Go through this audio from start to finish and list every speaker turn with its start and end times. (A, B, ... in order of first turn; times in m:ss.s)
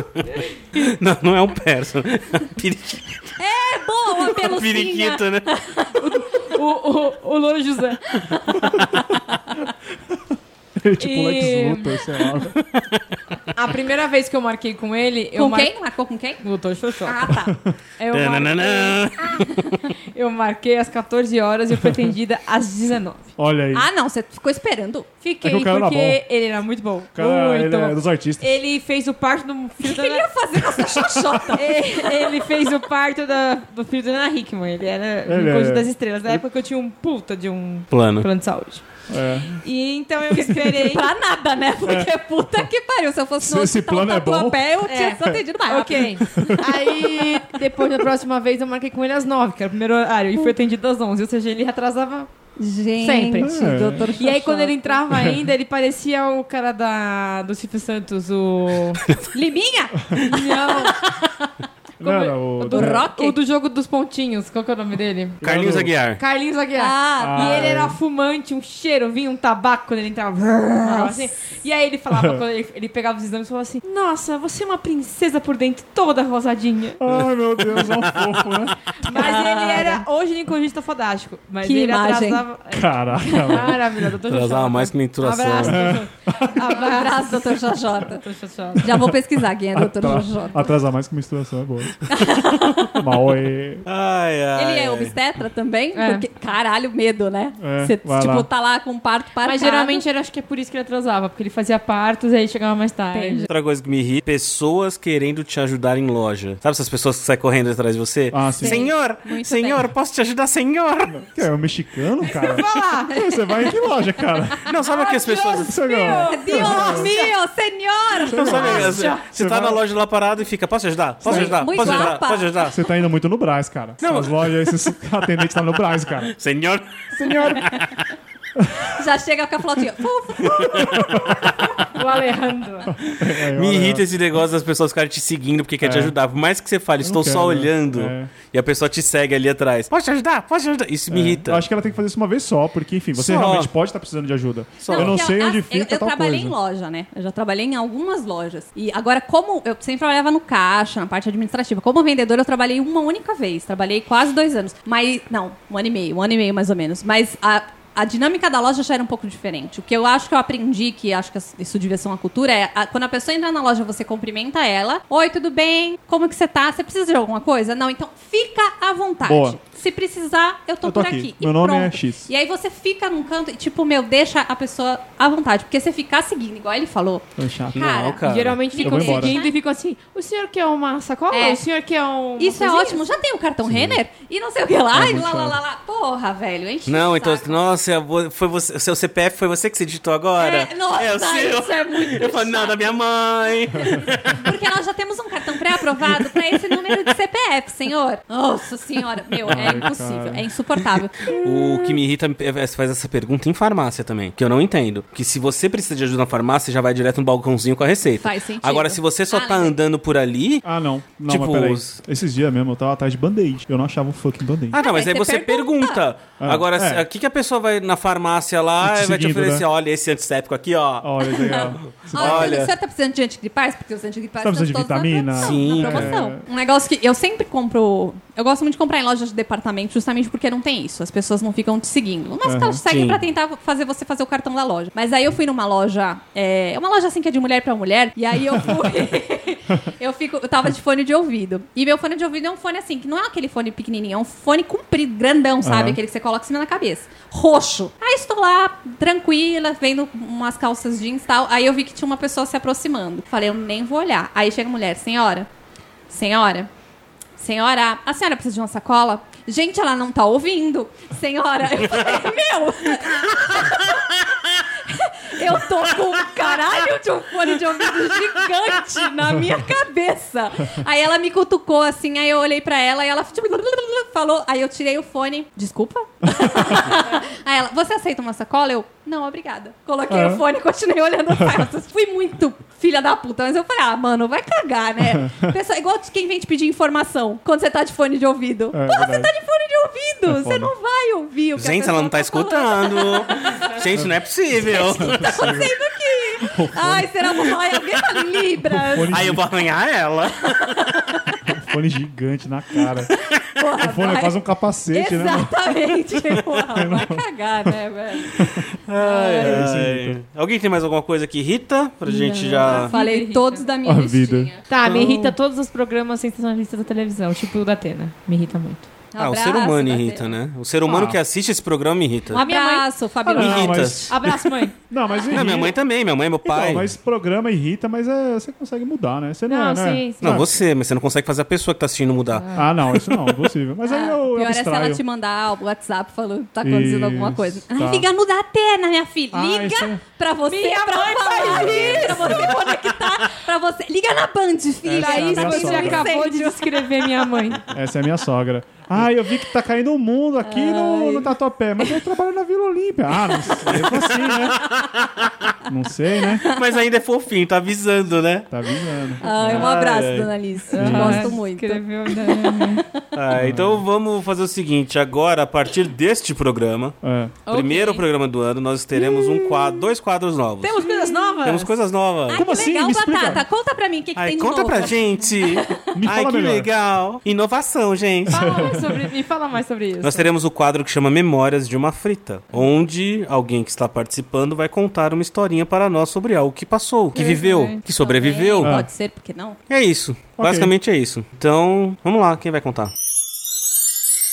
0:00.2-0:03.2 A
0:03.4-0:06.5 B
0:04.2-0:05.5 A
0:06.0-0:08.2 C
0:08.2-0:09.1 B
0:10.8-0:12.6 D
0:11.0-0:12.1 C
0:12.6-0:13.4 A
0:13.5-0:15.7 C
0:15.4-0:16.4 B
0:16.4-0:17.4 C
0:17.0-0:17.6 B
0:17.5-0:17.7 D
0:18.0-0:19.1 C
0:18.1-0:19.8 A
0:20.1-0:23.3 C
0:23.4-0:23.9 D
0:23.7-0:25.1 B
0:25.2-0:30.3 C
0:25.4-0:26.2 D
0:27.1-0:28.6 D
0:29.8-0:32.3 B
0:30.8-0:31.3 D
0:31.5-0:41.1 C
0:35.2-0:36.4 D
0:37.9-0:38.3 A
0:39.1-0:39.6 D
0:40.3-0:47.4 B
0:41.8-0:42.1 D
0:43.4-0:44.6 D
0:44.8-0:52.3 C
0:46.3-0:46.7 D
0:52.6-0:55.0 B
0:53.0-0:59.1 C
0:53.4-0:54.1 D
0:55.1-0:55.4 D
0:59.3-1:01.3 B
1:00.1-1:01.0 C
1:02.0-1:03.1 D
1:02.0-1:05.4 C
1:02.7-1:03.4 B
1:05.4-1:05.9 D
1:05.4-1:06.2 A
1:06.2-1:17.0 C
1:06.7-1:07.8 B
1:07.2-1:08.0 D
1:10.8-1:11.3 B
1:12.1-1:12.4 D
1:17.0-1:18.9 D
1:17.7-1:18.2 A
1:19.0-1:29.0 C
1:19.1-1:20.0 B
1:21.6-1:22.4 B
1:22.7-1:23.8 D
1:24.3-1:25.9 A
1:25.6-1:26.6 D
1:26.6-1:28.2 B
1:28.8-1:30.6 B
1:28.9-1:29.1 D
1:29.7-1:32.0 D
1:32.1-1:33.0 B
1:32.9-1:33.8 D
1:33.8-1:35.1 A
1:34.5-1:40.0 B
1:35.9-1:36.2 C
1:37.6-1:38.5 D
1:39.4-1:43.5 C
1:43.1-1:43.5 B
1:43.5-1:51.3 A
1:48.3-1:48.8 D
1:48.6-1:49.8 B
1:51.1-1:54.7 D
1:52.2-1:53.2 C
1:53.0-1:54.0 B
1:54.5-1:59.1 B
1:54.6-1:55.8 A
1:55.0-1:57.3 C
1:55.6-1:57.1 D
1:58.2-1:59.8 D
1:58.2-2:02.8 A
1:58.8-1:59.2 C
2:01.2-2:02.1 D
2:01.2-2:02.5 B
2:02.7-2:06.3 D
2:04.0-2:04.7 A
2:06.2-2:07.1 A
2:07.1-2:07.8 D
2:07.6-2:08.0 A
2:08.6-2:08.9 D
2:08.9-2:11.2 B
2:10.4-2:11.0 A
2:10.7-2:11.4 D
2:11.8-2:12.9 C
2:13.0-2:14.0 D
2:13.5-2:21.6 A
2:15.8-2:16.1 D
2:17.0-2:18.3 D
2:21.1-2:26.6 D
2:23.1-2:23.7 A
2:24.8-2:25.2 A
2:24.9-2:59.5 B
2:49.2-2:49.6 D
2:50.8-2:52.3 D
2:57.4-2:57.9 D
2:57.7-2:58.6 A
2:58.2-3:03.1 C
2:58.8-2:59.4 D
3:01.3-3:01.6 B
3:02.4-3:07.6 B
3:03.6-3:04.0 A
3:04.9-3:05.6 D
3:06.8-3:14.6 A
3:10.4-3:13.0 B
3:13.8-3:21.4 B
3:16.0-3:16.3 A
3:19.4-3:20.4 D
3:21.3-3:30.6 A
3:28.2-3:29.7 B
3:30.6-3:34.8 D
3:31.2-3:32.0 A
3:34.7-3:42.7 A
3:34.7-3:36.0 B
3:36.4-3:37.0 D
3:38.8-3:39.6 D
3:41.0-3:42.6 D
3:41.3-4:15.5 B
3:44.4-3:46.4 D
3:45.4-3:46.2 A
3:52.4-3:52.8 D
3:52.9-3:53.2 A
4:05.6-4:06.0 D
4:16.1-4:16.7 B
4:17.4-4:53.8 B
4:40.1-4:40.4 D
4:41.4-4:41.6 D
4:45.1-4:45.5 D
4:48.7-4:49.3 D
4:50.2-4:50.7 D
4:51.6-4:55.5 A
4:53.9-4:55.7 D
4:54.6-4:59.2 B
4:56.4-4:57.1 D
4:58.7-4:59.4 D
4:59.1-5:01.0 A
5:00.7-5:01.4 B
5:01.5-5:03.2 D
5:03.4-5:04.4 B
5:03.8-5:05.9 D
5:04.9-5:09.6 B
5:06.7-5:07.8 D
5:08.3-5:08.6 D
5:08.4-5:12.9 A
5:09.4-5:10.2 D
5:12.0-5:13.7 C
5:12.6-5:14.6 B
5:13.8-5:14.5 D
5:14.7-5:18.9 C
5:14.8-5:15.3 A
5:19.1-5:20.3 B
5:19.2-5:22.4 A
5:20.8-5:21.2 D
5:22.3-5:24.0 B
5:22.3-5:22.9 C
5:23.2-5:25.8 D
5:23.3-5:24.1 A
5:24.1-5:24.7 C
5:25.3-5:26.9 A
5:26.4-5:30.5 D
5:29.5-5:30.4 C
5:30.2-5:33.0 A
5:32.3-5:32.7 C
5:32.5-5:35.0 D
5:33.8-5:47.3 B
5:36.6-5:38.1 D
5:39.3-5:40.0 D
5:40.4-5:42.7 C
5:41.4-5:42.6 D
5:44.8-5:46.2 D
5:44.8-5:47.6 C
5:47.7-5:54.6 D
5:50.4-5:52.0 B
5:53.6-5:55.5 A
5:55.6-5:56.5 D
5:56.5-5:58.5 A
5:58.5-5:59.7 D
5:59.2-6:02.9 B
5:59.2-6:00.3 A
6:00.7-6:02.8 C
6:00.7-6:01.4 D
6:03.1-6:07.0 A
6:03.3-6:03.8 D
6:07.0-6:07.4 D
6:07.4-6:08.0 C
6:07.5-6:10.8 A
6:09.1-6:09.7 B
6:10.6-6:11.7 C
6:10.8-6:11.4 B
6:11.4-6:12.4 A
6:12.3-6:15.9 B
6:12.3-6:13.4 D
6:14.2-6:18.7 A
6:15.9-6:16.7 D
6:18.3-6:20.3 C
6:18.3-6:19.0 D
6:20.0-6:28.8 A
6:27.1-6:27.8 C
6:28.0-6:29.6 B
6:28.6-6:28.9 D
6:29.7-6:32.9 A
6:30.4-6:30.7 D